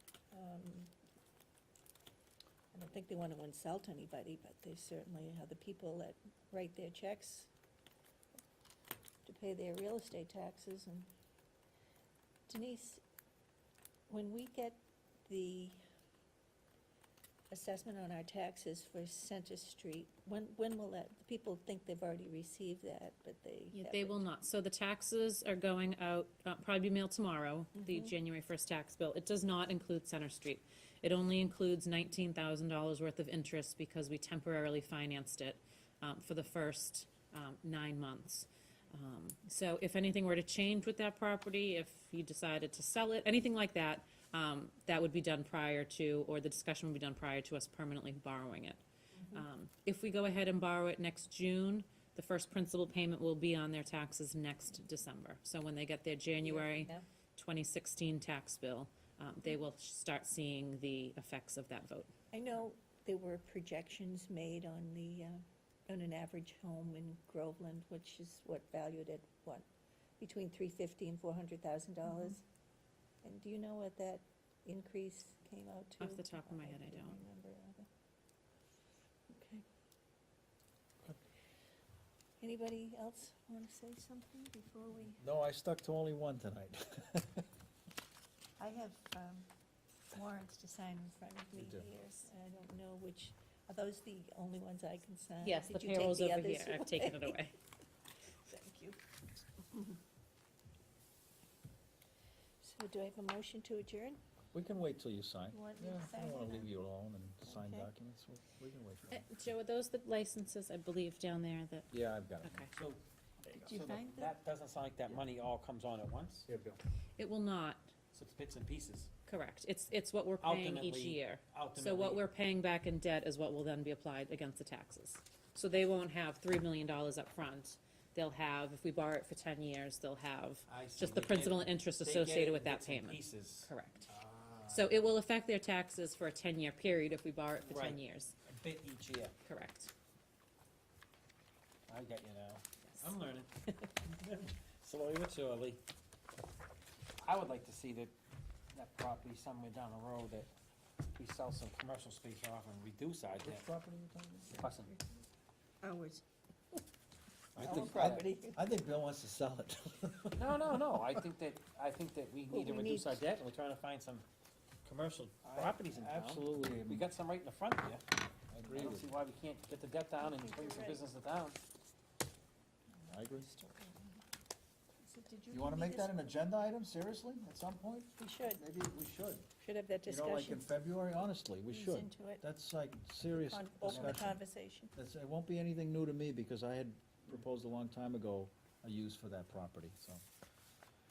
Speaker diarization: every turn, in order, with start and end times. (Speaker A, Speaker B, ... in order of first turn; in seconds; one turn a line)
Speaker A: 0.3-0.9
Speaker A: 2.7-7.5
Speaker A: 9.2-11.1
Speaker A: 12.5-13.0
Speaker A: 14.1-15.8
Speaker A: 17.5-24.2
Speaker B: 23.7-48.8
Speaker A: 27.8-28.1
Speaker B: 49.3-62.1
Speaker A: 56.4-57.0
Speaker A: 62.3-69.7
Speaker A: 70.2-72.4
Speaker A: 73.2-77.9
Speaker B: 76.0-77.2
Speaker A: 79.3-79.7
Speaker A: 82.4-85.2
Speaker C: 85.2-87.5
Speaker A: 88.6-89.5
Speaker A: 90.1-97.4
Speaker C: 91.6-91.9
Speaker B: 95.4-97.5
Speaker A: 98.4-99.0
Speaker A: 99.6-100.0
Speaker A: 102.6-104.2
Speaker C: 104.5-109.2
Speaker A: 105.5-106.7
Speaker A: 107.5-107.9
Speaker B: 109.1-111.9
Speaker C: 111.9-112.7
Speaker B: 112.4-112.7
Speaker D: 112.8-116.5
Speaker A: 113.5-114.3
Speaker C: 116.5-116.8
Speaker B: 117.2-117.9
Speaker D: 118.1-119.1
Speaker B: 119.3-134.1
Speaker D: 120.4-122.3
Speaker D: 130.7-135.0
Speaker B: 134.7-138.3
Speaker D: 137.7-139.4
Speaker B: 139.4-139.9
Speaker D: 141.9-145.8
Speaker B: 142.9-143.2
Speaker D: 147.2-148.1
Speaker D: 148.7-150.5
Speaker D: 151.1-153.6
Speaker C: 153.4-154.7
Speaker D: 154.6-154.9
Speaker A: 154.9-155.2
Speaker A: 155.8-156.2
Speaker C: 157.6-161.2
Speaker A: 157.6-158.6
Speaker D: 160.4-164.2
Speaker A: 162.5-163.2
Speaker D: 164.8-168.0
Speaker C: 165.5-167.1
Speaker C: 168.5-169.1
Speaker D: 168.7-171.6
Speaker A: 170.2-171.0
Speaker C: 173.0-173.5
Speaker A: 173.3-174.2
Speaker A: 175.0-176.3
Speaker C: 175.5-179.5
Speaker A: 178.2-178.6
Speaker A: 179.6-180.6
Speaker C: 180.1-184.4
Speaker A: 181.7-182.4
Speaker A: 183.3-184.9
Speaker C: 184.9-190.2